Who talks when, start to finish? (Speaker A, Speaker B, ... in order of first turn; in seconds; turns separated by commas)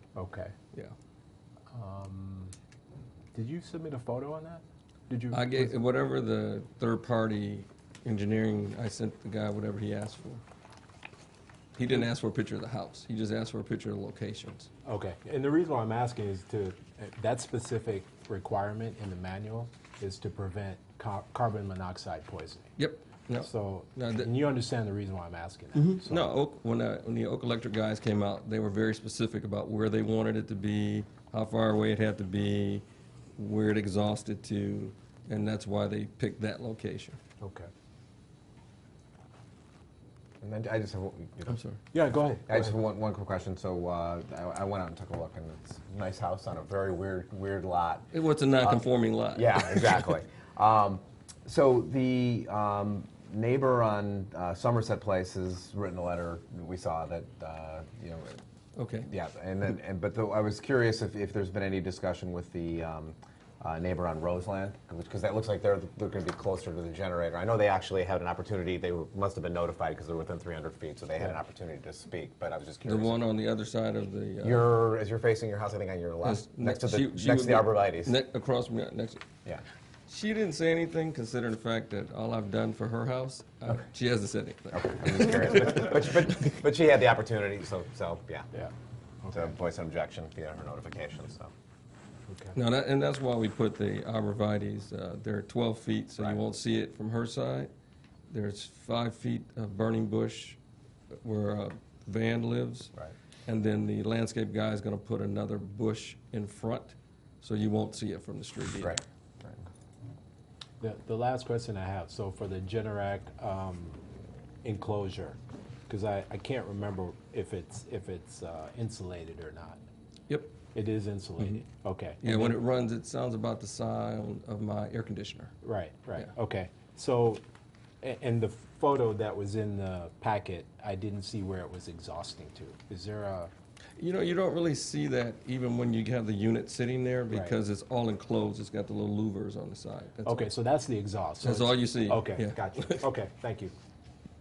Speaker A: 0.1-0.5, Speaker A: 1.7-2.5, Speaker A: 3.3-5.7, Speaker B: 5.3-10.4, Speaker B: 11.8-14.7, Speaker A: 14.8-22.7, Speaker B: 22.8-24.3, Speaker A: 23.3-26.3, Speaker B: 25.8-32.9, Speaker B: 33.4-37.2, Speaker A: 37.4-37.7, Speaker C: 40.4-41.6, Speaker B: 41.5-41.8, Speaker A: 41.9-42.7, Speaker C: 42.5-58.4, Speaker B: 48.1-49.6, Speaker B: 58.8-59.1, Speaker C: 59.1-73.2, Speaker B: 72.8-74.7, Speaker C: 74.4-78.2, Speaker B: 76.2-79.2, Speaker B: 80.1-85.9, Speaker C: 84.7-88.5, Speaker A: 88.5-89.5, Speaker C: 89.3-91.5, Speaker A: 92.3-92.5, Speaker B: 92.5-97.7, Speaker B: 98.3-100.6, Speaker B: 101.2-102.9, Speaker B: 103.5-109.0, Speaker C: 108.8-109.7, Speaker A: 110.8-114.0, Speaker A: 114.6-115.4, Speaker A: 115.9-119.8, Speaker B: 120.3-120.6, Speaker A: 120.7-122.6, Speaker B: 122.2-125.5, Speaker A: 125.6-127.4, Speaker A: 128.0-133.5, Speaker B: 134.0-140.5, Speaker A: 137.3-137.6, Speaker A: 140.2-143.7, Speaker B: 141.4-143.1